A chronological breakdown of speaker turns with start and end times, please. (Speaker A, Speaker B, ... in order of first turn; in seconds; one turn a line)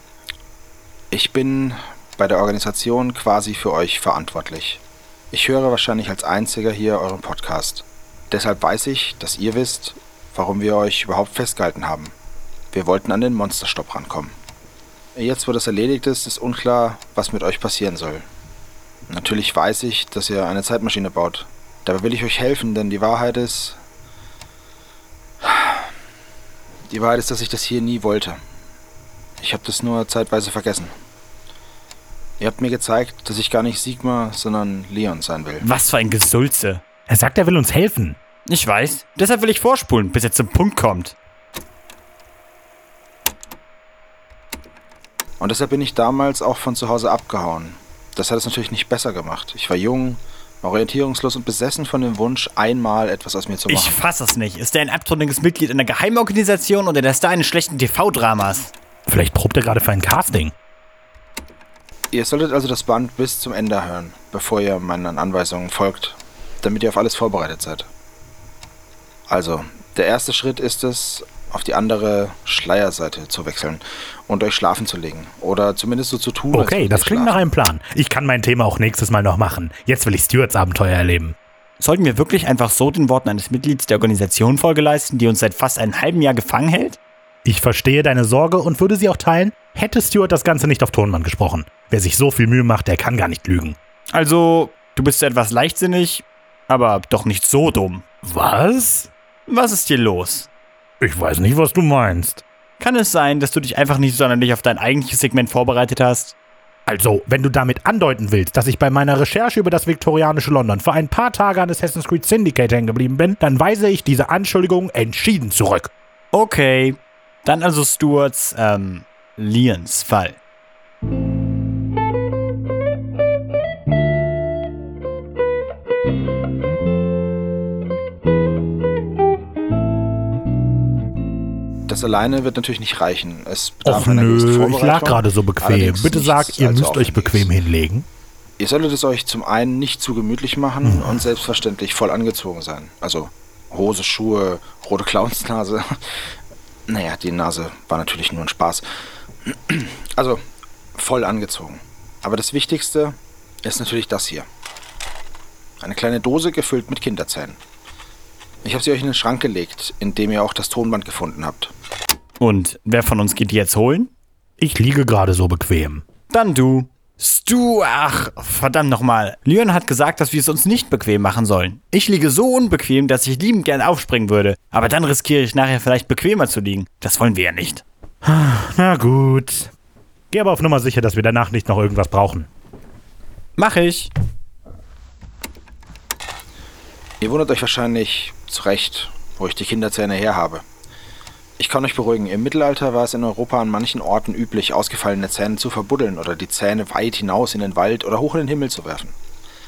Speaker A: 1.1-4.8
Speaker A: 5.3-12.1
Speaker A: 12.7-14.3
Speaker A: 15.1-18.2
Speaker A: 19.1-23.8
Speaker A: 25.4-25.8
Speaker A: 26.9-28.4
Speaker A: 29.4-30.9
Speaker A: 32.4-35.6
Speaker B: 35.6-36.8
Speaker C: 37.1-38.2
Speaker B: 38.5-41.1
Speaker A: 45.4-54.0
Speaker B: 53.7-58.7
Speaker C: 59.1-60.5
Speaker A: 62.1-67.9
Speaker A: 69.3-77.4
Speaker C: 76.5-81.3
Speaker B: 81.8-87.0
Speaker C: 87.4-93.8
Speaker B: 94.1-98.0
Speaker C: 98.2-99.1
Speaker B: 99.5-100.5
Speaker C: 101.0-102.4
Speaker B: 102.8-106.3
Speaker C: 106.8-115.9
Speaker B: 116.3-120.4
Speaker A: 131.9-137.5
Speaker C: 133.8-138.1
Speaker A: 138.6-145.9
Speaker C: 140.8-141.2
Speaker A: 146.9-148.8
Speaker A: 149.4-150.4
Speaker A: 150.9-154.4
Speaker A: 155.8-157.6
Speaker A: 158.6-161.7
Speaker B: 162.4-164.1
Speaker C: 164.6-166.0
Speaker B: 166.3-177.8
Speaker C: 178.2-179.7
Speaker C: 180.3-182.5
Speaker B: 183.6-184.1
Speaker A: 187.2-190.6
Speaker A: 191.6-199.1